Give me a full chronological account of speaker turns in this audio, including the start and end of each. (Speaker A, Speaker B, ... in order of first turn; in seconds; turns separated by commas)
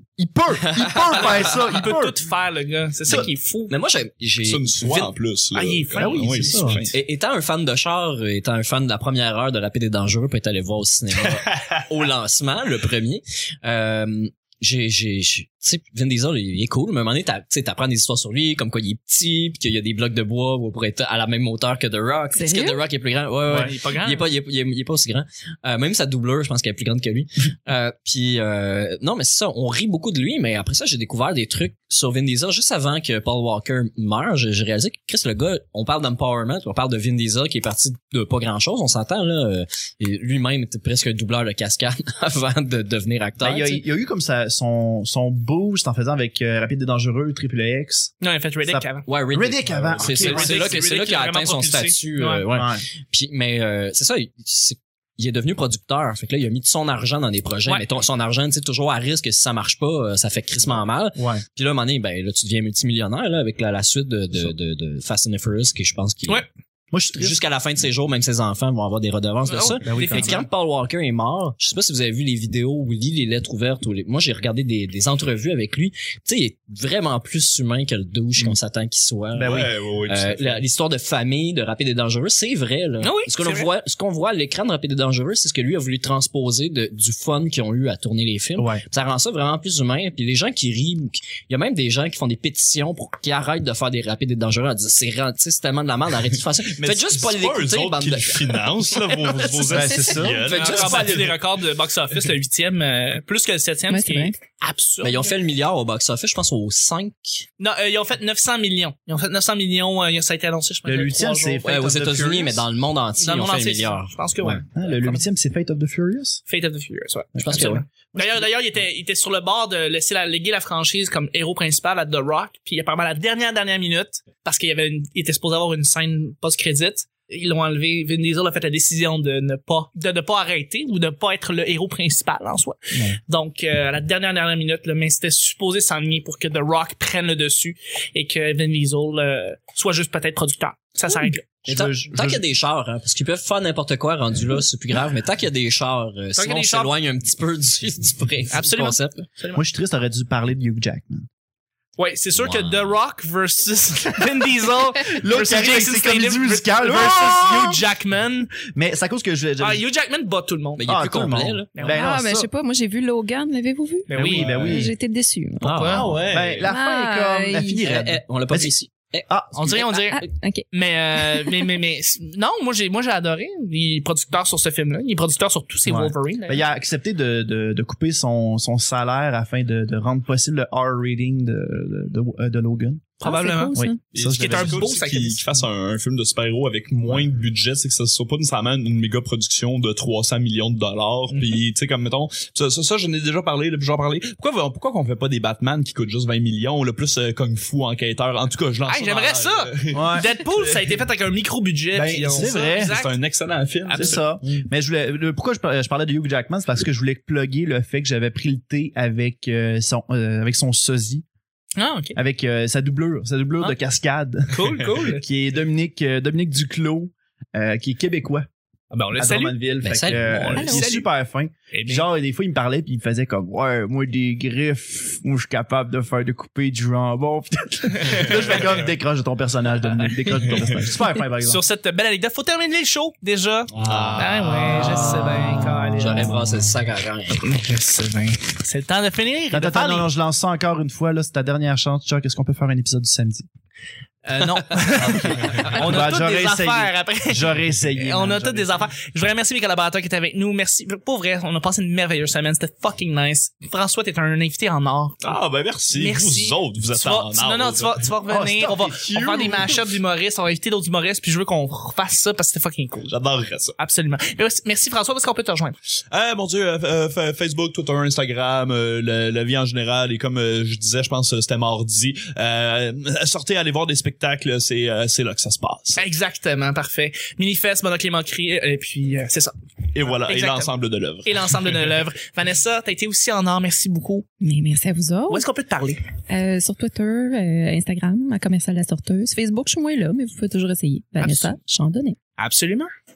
Speaker A: 0.2-2.2, Speaker B: 1.1-3.7, Speaker C: 3.1-5.1, Speaker D: 4.4-6.9, Speaker B: 5.5-6.9, Speaker A: 5.9-6.8, Speaker C: 6.9-43.8, Speaker D: 11.3-11.8, Speaker E: 22.3-22.8, Speaker B: 23.5-24.3, Speaker A: 43.4-48.1, Speaker B: 48.2-49.0, Speaker A: 48.6-50.6, Speaker C: 49.0-66.4, Speaker B: 50.0-52.4, Speaker A: 52.5-52.8, Speaker A: 61.1-61.4, Speaker A: 66.9-67.4, Speaker C: 67.0-98.7, Speaker B: 69.5-70.5, Speaker A: 69.8-70.4, Speaker A: 79.3-79.7, Speaker D: 79.4-80.6, Speaker B: 83.0-83.7, Speaker A: 88.6-88.8, Speaker D: 96.7-101.3, Speaker A: 99.7-100.4, Speaker B: 100.4-105.3, Speaker C: 100.5-101.2, Speaker E: 103.9-104.3, Speaker C: 105.0-107.5, Speaker B: 107.6-111.6, Speaker A: 110.8-112.6, Speaker C: 111.6-114.6, Speaker B: 113.2-115.2, Speaker A: 114.7-116.4, Speaker B: 116.5-141.4, Speaker C: 117.4-117.8, Speaker A: 141.2-142.4, Speaker C: 141.7-149.3, Speaker B: 146.3-146.9, Speaker B: 148.5-149.6, Speaker A: 149.5-151.3, Speaker B: 152.0-158.5, Speaker C: 152.4-152.9, Speaker A: 155.0-157.8, Speaker A: 158.6-159.8, Speaker B: 159.6-160.8, Speaker C: 160.8-161.7, Speaker A: 160.8-162.5, Speaker B: 161.7-162.0, Speaker E: 161.8-166.0, Speaker B: 164.1-164.5, Speaker A: 164.1-164.9, Speaker D: 164.3-164.7, Speaker C: 165.6-166.2, Speaker B: 165.6-166.1, Speaker D: 165.8-166.7, Speaker A: 166.3-168.7, Speaker E: 166.6-167.8, Speaker C: 167.8-169.2, Speaker A: 169.3-169.8, Speaker B: 169.5-176.7, Speaker E: 170.1-171.7, Speaker A: 175.8-183.2, Speaker B: 183.2-185.4, Speaker E: 183.2-184.0, Speaker A: 183.7-184.9, Speaker D: 184.1-200.9, Speaker B: 198.9-203.2, Speaker A: 199.9-200.3, Speaker A: 201.9-202.9, Speaker D: 202.3-204.2, Speaker B: 203.9-204.2, Speaker A: 203.9-211.2, Speaker B: 211.8-212.2, Speaker A: 212.1-218.5, Speaker B: 214.5-215.2, Speaker B: 218.9-219.6, Speaker A: 219.2-231.6, Speaker C: 219.8-220.8, Speaker E: 220.6-220.9, Speaker B: 220.6-221.1, Speaker B: 221.7-222.1, Speaker B: 228.1-228.6, Speaker B: 231.2-236.4, Speaker D: 233.7-235.1, Speaker A: 234.7-235.7, Speaker C: 236.0-237.4, Speaker B: 237.3-240.1, Speaker A: 239.5-243.5, Speaker B: 244.2-255.2, Speaker A: 245.0-248.8, Speaker D: 255.2-258.0, Speaker B: 255.9-263.1, Speaker A: 258.3-259.8, Speaker D: 263.1-263.7, Speaker B: 263.8-265.8, Speaker D: 266.1-276.0, Speaker B: 276.0-280.7, Speaker D: 279.9-281.9, Speaker B: 281.2-284.2, Speaker E: 284.4-285.4, Speaker B: 285.3-286.0, Speaker E: 286.3-292.2, Speaker B: 292.4-292.9